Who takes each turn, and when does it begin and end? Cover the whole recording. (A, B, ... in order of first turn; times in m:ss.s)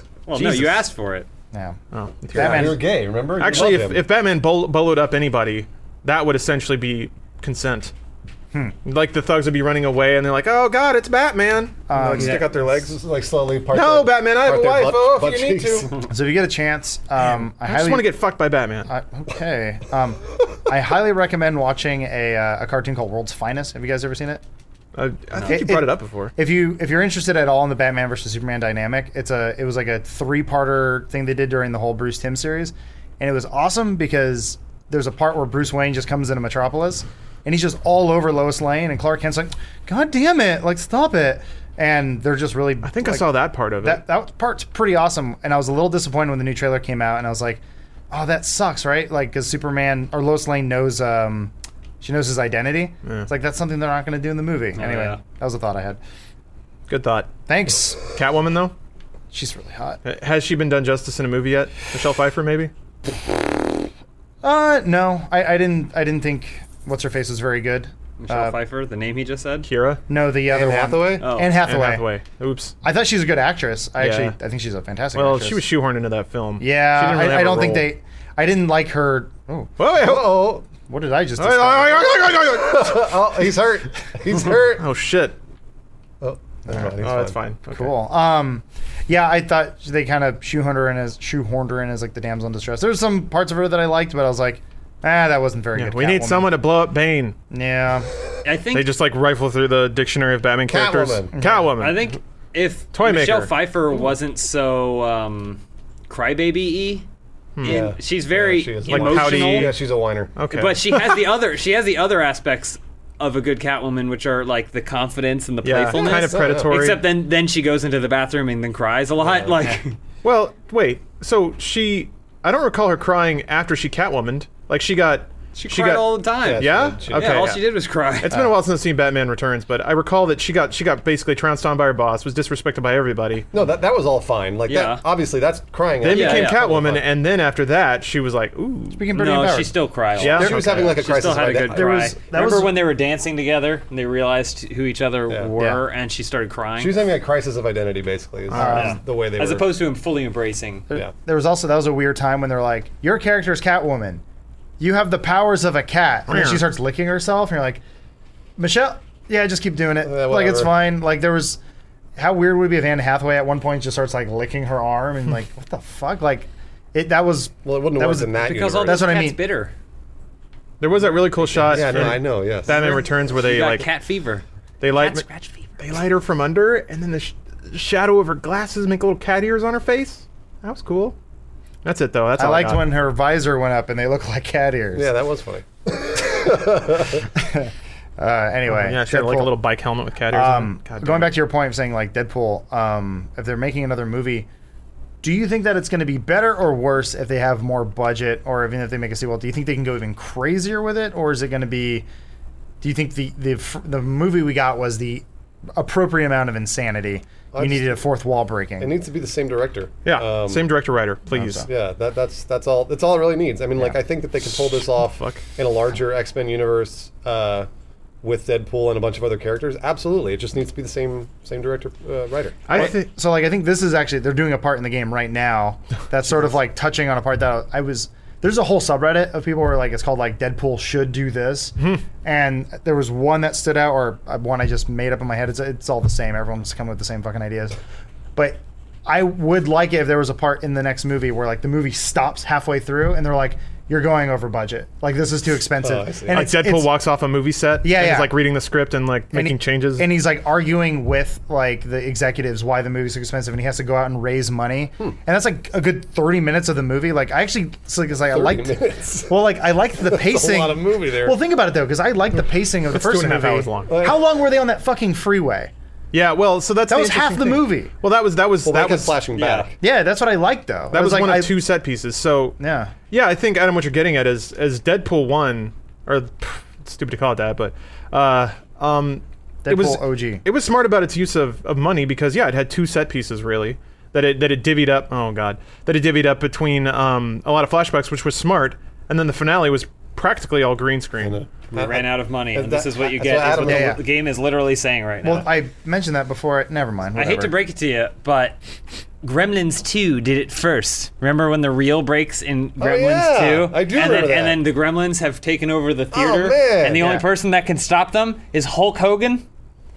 0:00.3-0:01.3 A
0:00.3-0:00.9 B
0:01.5-0:01.8 C
0:01.9-0:02.8 B
0:02.3-0:02.8 C
0:02.3-0:04.0 D
0:03.4-0:07.9 B
0:08.8-0:12.9 B
0:11.9-0:12.5 C
0:11.9-0:16.0 D
0:13.7-0:16.0 B
0:16.0-0:18.1 C
0:17.2-0:18.9 B
0:18.9-0:24.4 C
0:24.9-0:26.3 B
0:25.4-0:43.3 C
0:42.8-0:44.0 B
0:43.8-0:56.0 C
0:54.8-0:55.2 A
0:56.9-0:57.3 B
0:57.5-0:58.0 C
0:58.1-0:58.7 B
0:59.3-1:00.0 C
1:00.0-1:02.7 B
1:04.4-1:08.6 C
1:08.2-1:09.7 A
1:09.6-1:10.0 B
1:10.1-1:12.0 C
1:10.5-1:11.3 D
1:11.2-1:11.6 A
1:11.6-1:12.8 B
1:12.8-1:15.6 C
1:14.0-1:14.3 B
1:15.1-1:17.9 B
1:16.6-1:19.7 C
1:19.8-1:20.4 B
1:20.0-1:20.6 D
1:20.9-1:22.1 C
1:21.4-1:23.2 B
1:22.0-1:24.8 D
1:24.6-1:25.4 B
1:26.2-1:27.4 D
1:26.7-1:28.0 B
1:27.7-1:36.5 C
1:35.7-1:37.4 B
1:37.5-1:38.1 C
1:38.4-1:38.9 A
1:38.7-1:42.0 B
1:40.7-1:41.4 D
1:41.3-1:41.7 C
1:41.8-1:47.0 A
1:42.9-1:43.5 B
1:47.6-1:47.9 B
1:47.6-1:49.7 A
1:47.6-1:50.3 D
1:48.9-1:49.8 B
1:50.4-1:51.3 B
1:50.5-2:00.0 A
1:55.6-1:57.0 B
1:55.9-1:56.7 D
1:59.2-1:59.5 D
2:00.2-2:07.6 B
2:05.5-2:08.4 A
2:06.4-2:07.5 D
2:08.2-2:13.5 B
2:13.5-2:17.0 D
2:14.7-2:15.0 A
2:16.0-2:19.1 B
2:16.0-2:16.6 A
2:19.0-2:22.8 C
2:19.1-2:27.0 A
2:20.2-2:20.9 B
2:20.2-2:22.1 D
2:25.6-2:25.8 C
2:26.8-2:29.7 D
2:28.5-2:28.9 B
2:28.5-2:29.0 C
2:28.6-2:30.9 A
2:30.9-2:34.2 C
2:34.8-2:37.8 C
2:36.3-2:36.6 B
2:38.6-2:41.6 C
2:40.0-2:40.8 D
2:42.2-2:49.4 C
2:47.6-2:49.1 D
2:48.4-2:49.7 A
2:50.8-2:53.9 B
2:51.5-2:53.0 D
2:52.7-2:55.8 A
2:54.8-2:55.2 B
2:55.8-3:01.2 B
3:01.8-3:02.9 B
3:02.4-3:05.1 C
3:05.0-3:07.3 D
3:07.3-3:09.6 C
3:08.7-3:11.3 B
3:10.3-3:14.5 C
3:15.2-3:22.0 C
3:22.8-3:28.9 C
3:27.5-3:28.0 D
3:28.8-3:30.7 D
3:30.0-3:31.6 B
3:31.3-3:31.7 C
3:31.6-3:37.7 D
3:34.6-3:35.4 B
3:38.2-3:42.9 D
3:42.7-3:43.1 B
3:42.7-3:57.8 C
3:58.4-4:06.9 C
4:05.8-4:06.4 D
4:06.3-4:10.1 B
4:07.8-4:08.3 C
4:09.3-4:25.7 C
4:18.3-4:19.4 D
4:20.0-4:21.4 D
4:22.9-4:24.0 B
4:23.9-4:24.2 D
4:26.1-4:29.2 B
4:26.9-4:27.9 C
4:28.6-4:29.7 D
4:29.4-4:29.7 A
4:29.8-4:31.6 C
4:30.9-4:32.6 B
4:32.6-4:32.9 C
4:33.1-4:51.4 B
4:39.6-4:40.4 C
4:51.2-4:54.0 D
4:51.7-4:55.5 A
4:53.6-4:54.0 C
4:55.2-4:57.6 C
4:57.1-4:58.6 A
4:59.2-5:09.4 A
5:02.8-5:04.6 D
5:06.1-5:07.2 D